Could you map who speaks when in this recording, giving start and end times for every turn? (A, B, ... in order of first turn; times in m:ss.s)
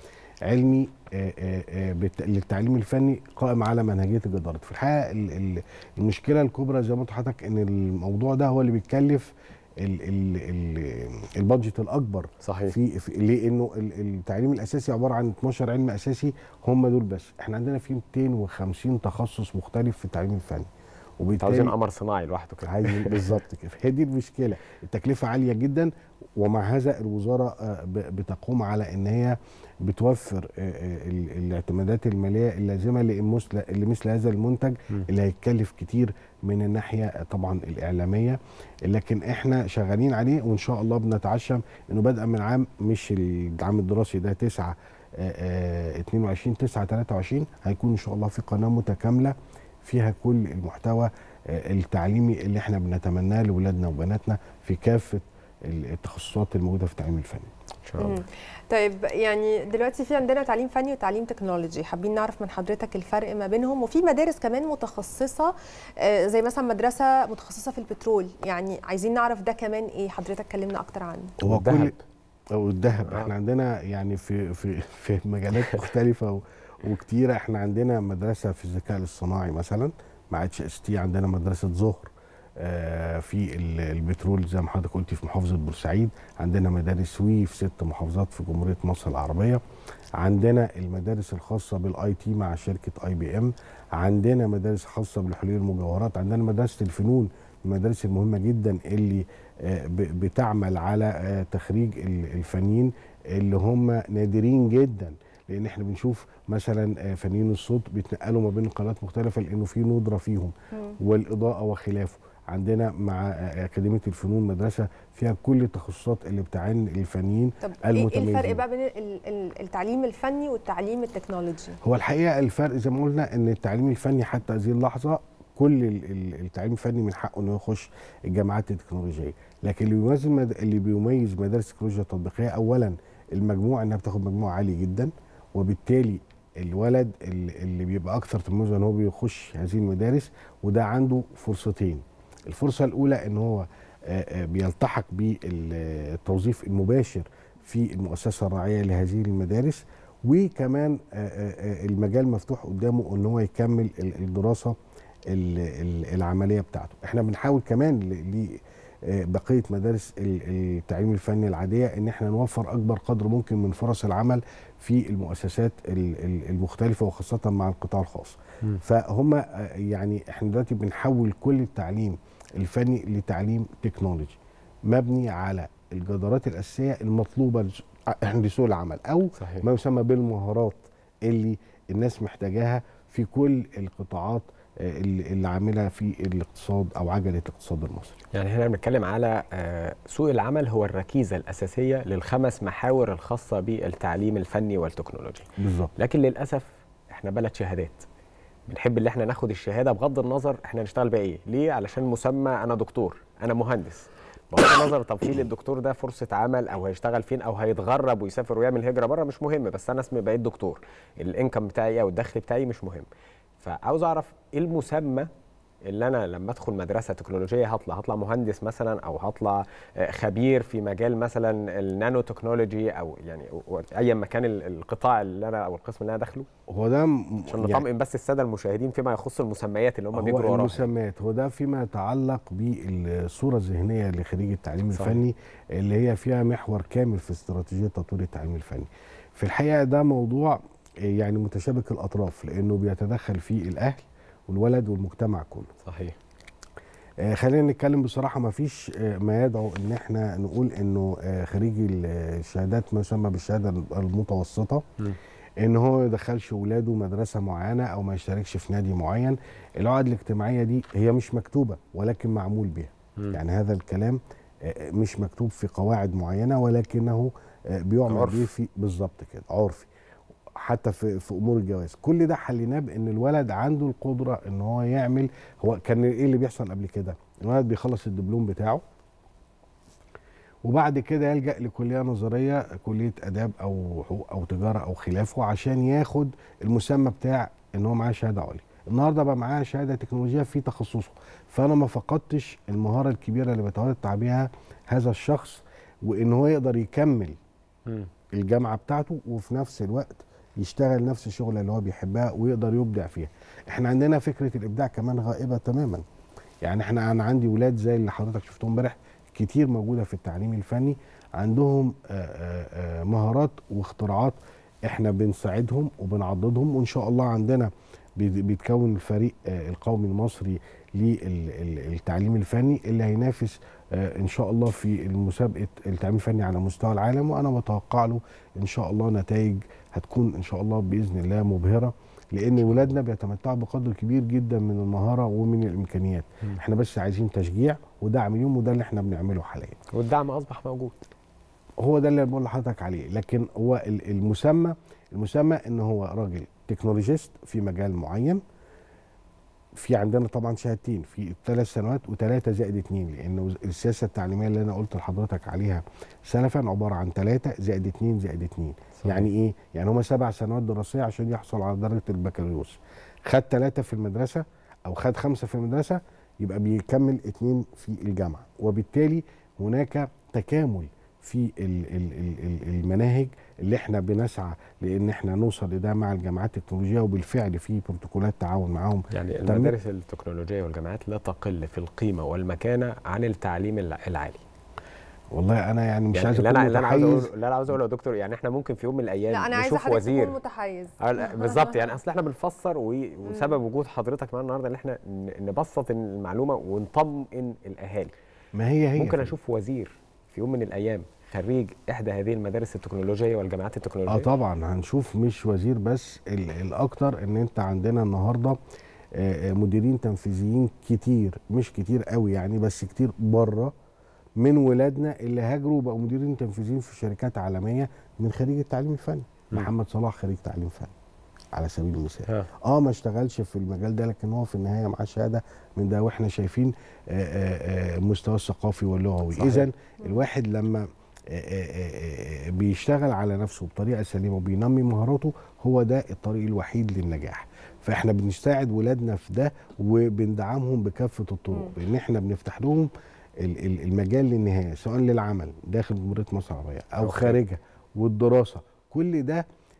0:00.4-0:21.7 A
0:12.4-0:12.8 B
0:21.4-0:23.4 B
0:22.6-0:57.5 A
0:57.8-0:58.2 B
0:58.0-1:11.4 C
1:11.4-1:11.9 A
1:11.4-1:12.0 B
1:12.5-1:29.6 A
1:13.0-1:13.3 B
1:30.2-1:58.6 A
1:50.7-1:51.0 C
1:57.6-2:01.8 C
2:01.8-2:34.8 A
2:35.3-3:08.2 A
2:59.4-2:59.6 B
3:08.3-3:18.0 B
3:15.6-3:15.9 A
3:18.7-3:33.1 B
3:33.6-3:35.3 B
3:35.8-3:46.5 B
3:46.7-3:47.9 A
3:47.5-3:50.8 B
3:50.1-4:05.7 A
3:54.9-3:55.2 B
4:05.8-4:06.2 B
4:07.2-4:14.8 A
4:15.6-4:29.9 A
4:28.1-4:28.5 B
4:30.6-4:38.8 A
4:40.6-4:57.4 A
4:58.4-5:06.0 A
5:06.6-5:39.8 A
5:39.9-5:41.0 B
5:41.8-5:48.4 A
5:49.8-6:19.7 A
5:59.0-5:59.3 B
6:19.1-6:24.4 B
6:25.3-6:27.3 A
6:26.1-6:30.4 B
6:29.3-6:31.9 C
6:31.0-6:38.1 B
6:33.3-6:33.5 C
6:38.5-6:39.3 A
6:39.0-6:44.3 B
6:44.1-6:48.6 A
6:49.1-6:53.7 A
6:54.4-7:00.9 A
7:01.5-7:29.4 A
7:09.4-7:09.7 B
7:27.0-7:27.4 B